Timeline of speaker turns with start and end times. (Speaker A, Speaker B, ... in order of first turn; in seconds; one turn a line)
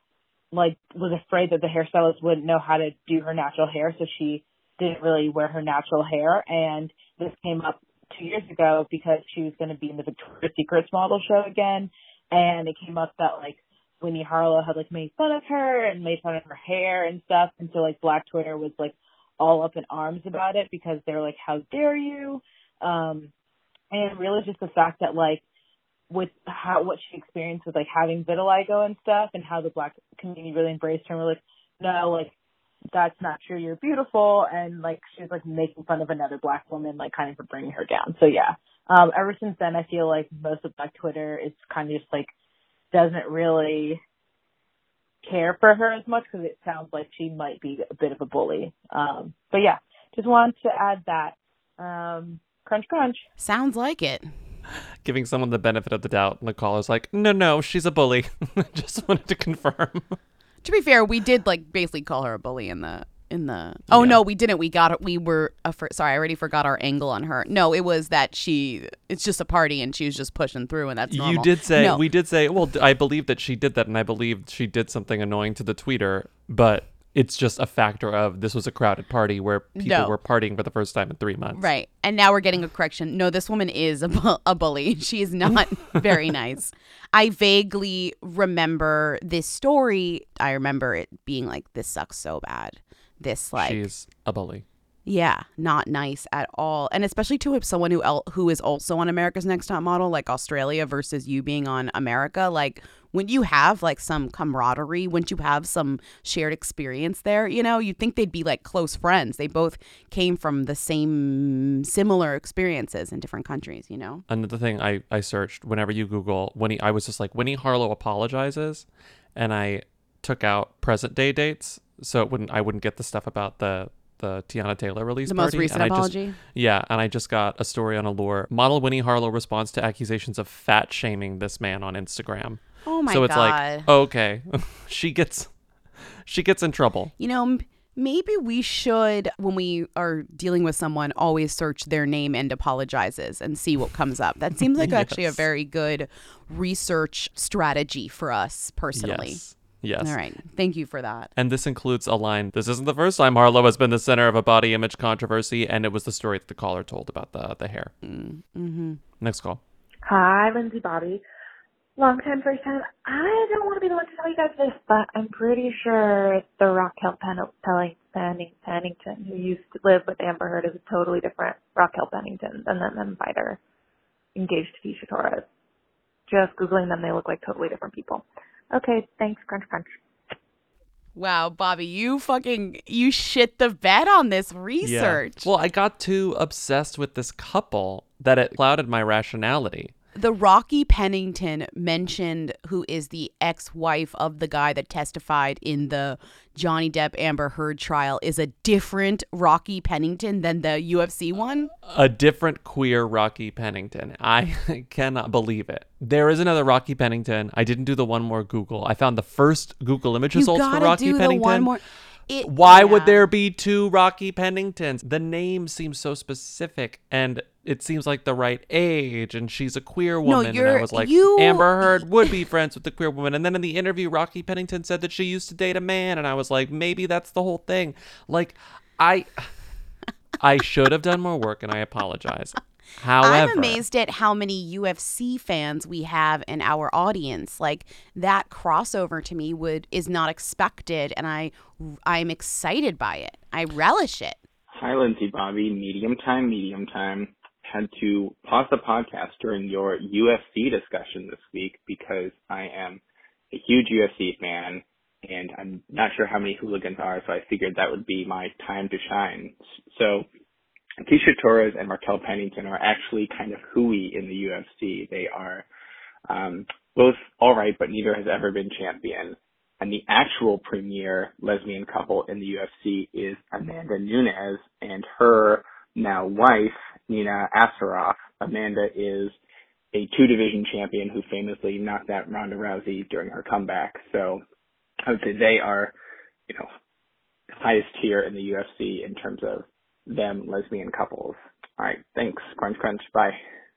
Speaker A: 0.5-23.3
Speaker A: 23.9-25.4
Speaker A: 26.1-32.3
Speaker A: 32.9-42.3
Speaker A: 42.9-44.0
Speaker A: 45.2-53.2
Speaker B: 53.4-54.3
Speaker C: 55.0-60.2
Speaker B: 60.6-72.0
Speaker C: 63.9-64.2
Speaker C: 71.1-81.7
Speaker B: 79.8-80.1
Speaker B: 81.5-93.8
Speaker C: 93.6-94.6
Speaker B: 95.0-114.2
Speaker C: 114.3-118.8
Speaker C: 119.3-135.5
Speaker B: 125.3-126.4
Speaker B: 132.8-133.9
Speaker C: 136.2-137.1
Speaker B: 137.2-149.4
Speaker C: 144.7-145.4
Speaker C: 148.9-150.2
Speaker B: 150.0-151.3
Speaker C: 151.3-157.9
Speaker B: 158.0-159.0
Speaker C: 159.2-159.6
Speaker D: 160.0-161.2
Speaker D: 162.0-173.6
Speaker D: 174.3-175.4
Speaker D: 176.3-180.0
Speaker B: 181.2-185.4
Speaker C: 184.8-189.9
Speaker B: 190.1-201.7
Speaker C: 201.8-211.7
Speaker B: 210.3-213.2
Speaker C: 212.4-229.5
Speaker B: 220.2-222.3
Speaker C: 230.4-233.8
Speaker B: 233.2-244.4
Speaker E: 244.8-260.3
Speaker E: 261.0-265.6
Speaker E: 266.3-279.3
Speaker E: 279.9-284.4
Speaker E: 285.0-285.9
Speaker E: 287.6-293.4